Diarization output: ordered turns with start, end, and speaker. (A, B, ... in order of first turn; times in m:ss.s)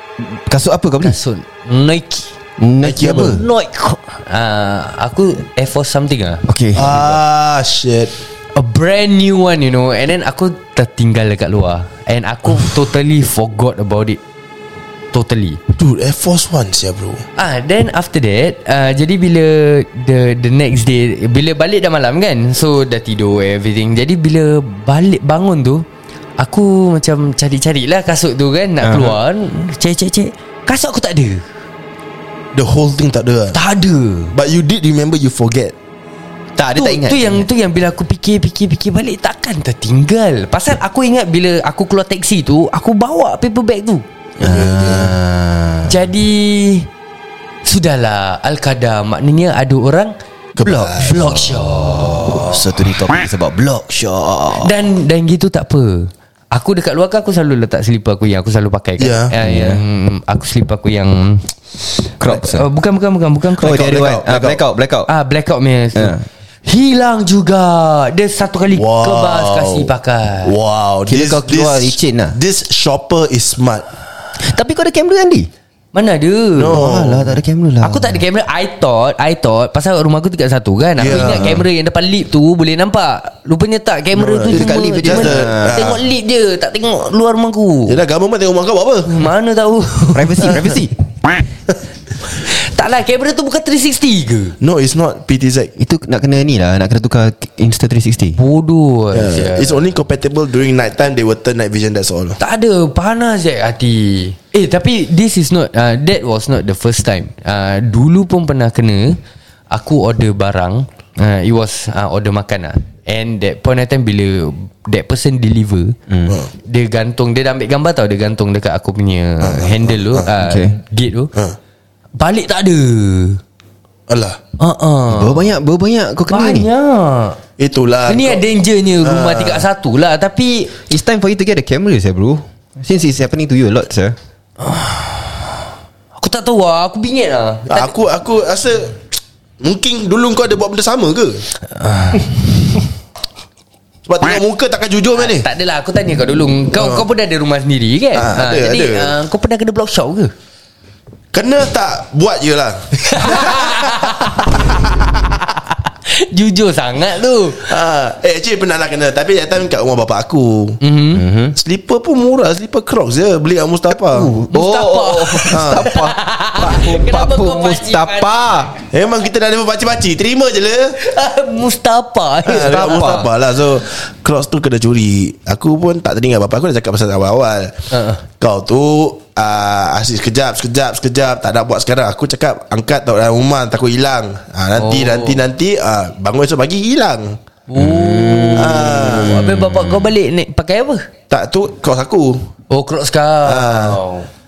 0:00.2-0:01.2 A
0:01.0-0:02.3 B
0:02.6-0:03.4 A
0:02.8-0:03.4 C
0:03.0-0:06.4 B
0:06.4-0:07.1 A
0:06.8-0:08.1 C
0:08.6-0:14.2 B
0:15.1-0:15.6 B
0:15.7-0:17.2 C
0:17.4-0:25.9 B
0:26.4-0:31.4 B
0:28.8-0:29.2 A
0:32.5-0:33.6 C
0:33.5-0:34.3 B
0:34.3-0:35.7 C
0:36.6-0:37.4 A
0:36.8-0:44.0 B
0:44.4-0:46.0 A
0:44.4-0:45.1 C
0:45.9-0:46.9 B
0:47.6-0:50.1 B
0:50.6-0:51.2 C
0:50.6-0:54.7 A
0:51.0-0:52.5 B
0:54.6-1:01.5 B
0:59.0-0:59.3 C
0:59.4-0:59.8 A
1:02.2-1:02.6 A
1:02.2-1:03.9 B
1:03.6-1:05.1 A
1:03.6-1:04.6 C
1:05.1-1:10.5 B
1:05.9-1:06.2 A
1:08.7-1:09.9 C
1:10.4-1:13.9 C
1:11.1-1:12.4 A
1:14.4-1:15.5 A
1:15.9-1:16.8 B
1:16.6-1:17.4 C
1:16.7-1:18.2 A
1:17.8-1:28.0 B
1:21.0-1:21.6 C
1:24.2-1:26.0 C
1:24.4-1:26.0 A
1:27.9-1:29.2 C
1:29.1-1:30.6 B
1:30.1-1:31.0 A
1:32.3-1:34.6 B
1:34.6-1:35.7 C
1:35.8-1:38.4 A
1:38.4-1:39.8 B
1:39.1-1:42.4 C
1:42.4-1:49.2 B
1:49.7-1:56.0 B
1:56.6-2:01.3 B
1:59.4-2:00.2 C
2:00.4-2:00.7 A
2:02.2-2:03.4 B
2:04.1-2:04.4 C
2:04.6-2:05.5 B
2:05.1-2:06.7 A
2:06.3-2:07.4 B
2:07.6-2:08.4 C
2:08.1-2:10.7 B
2:09.0-2:09.6 C
2:10.9-2:14.2 A
2:14.6-2:15.4 B
2:16.2-2:17.9 B
2:17.7-2:19.0 C
2:19.6-2:21.5 C
2:21.8-2:22.2 B
2:24.1-2:25.5 C
2:25.2-2:30.3 B
2:26.7-2:27.1 C
2:28.1-2:29.1 C
2:31.3-2:34.8 C
2:33.0-2:34.4 B
2:36.1-2:37.7 B
2:37.6-2:40.8 C
2:40.8-2:41.2 B
2:41.1-2:41.6 A
2:41.6-2:44.3 C
2:44.0-2:48.8 A
2:44.5-2:48.3 B
2:45.5-2:45.9 C
2:48.9-2:51.0 C
2:51.0-2:53.2 B
2:52.4-2:57.8 C
2:52.4-2:53.3 A
2:57.9-2:58.2 B
2:58.4-3:07.4 C
3:04.8-3:05.4 B
3:07.7-3:11.1 B
3:07.8-3:10.1 A
3:08.6-3:09.4 C
3:11.3-3:12.5 C
3:12.7-3:14.3 B
3:13.4-3:14.0 C